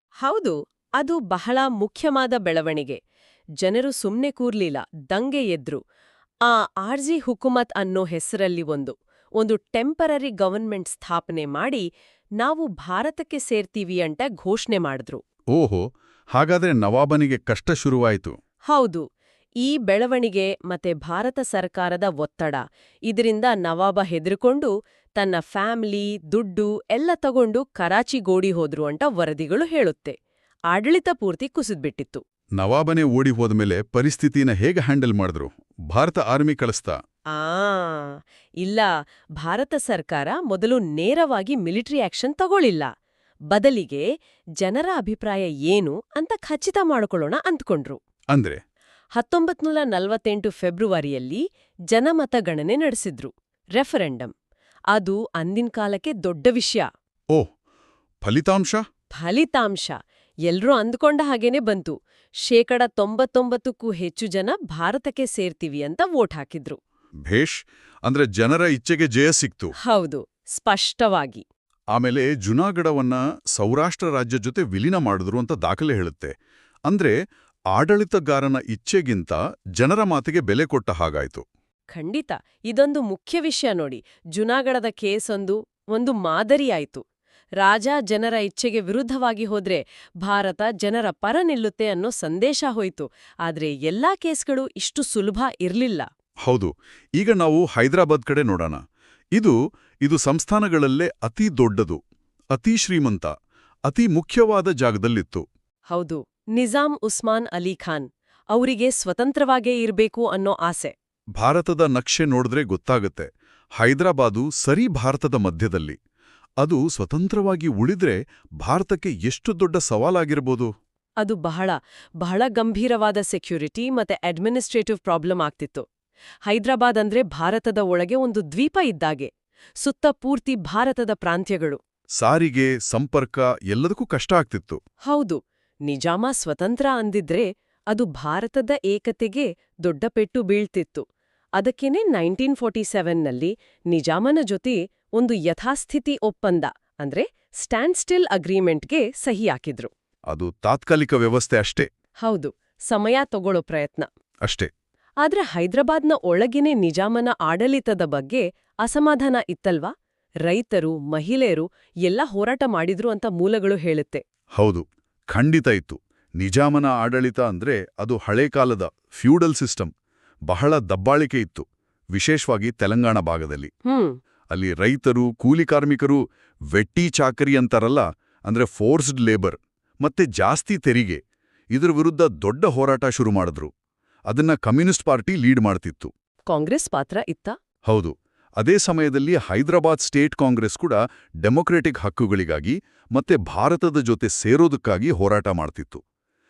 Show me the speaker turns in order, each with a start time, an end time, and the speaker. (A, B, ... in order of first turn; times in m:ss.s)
0:00.2-0:03.0 A
0:03.6-0:05.8 A
0:06.5-0:11.8 A
0:12.4-0:15.2 A
0:15.5-0:18.4 B
0:18.7-0:19.0 A
0:19.6-0:30.2 A
0:30.7-0:32.2 A
0:32.6-0:37.0 B
0:37.3-0:38.9 A
0:39.4-0:42.9 A
0:43.5-0:44.1 A
0:44.6-0:48.0 A
0:48.3-0:48.6 B
0:49.2-0:54.3 A
0:54.9-0:56.9 A
0:58.2-0:58.8 B
0:59.1-1:06.8 A
1:07.3-1:09.8 B
1:09.8-1:11.4 A
1:11.9-1:16.3 B
1:16.9-1:17.2 B
1:17.7-1:21.4 B
1:21.9-1:27.0 A
1:27.6-1:36.1 A
1:36.5-1:38.8 B
1:39.4-1:42.0 B
1:42.5-1:43.3 B
1:43.9-1:45.5 B
1:45.9-1:50.9 A
1:51.4-1:56.0 B
1:56.6-2:00.7 B
2:01.2-2:05.9 A
2:06.5-2:11.8 A
2:12.2-2:14.8 B
2:15.1-2:21.0 A
2:21.6-2:29.9 A
2:30.3-2:31.9 B
2:32.2-2:34.1 A
2:34.4-2:34.7 B
2:35.2-2:39.9 A
2:40.5-2:44.2 A
2:44.6-2:49.9 B
2:50.5-2:53.7 B
2:53.9-2:54.2 A
2:54.5-2:56.2 B
2:56.7-3:01.2 B
3:01.7-3:03.7 B
3:04.3-3:06.1 B
3:06.5-3:07.6 A
3:07.9-3:16.0 B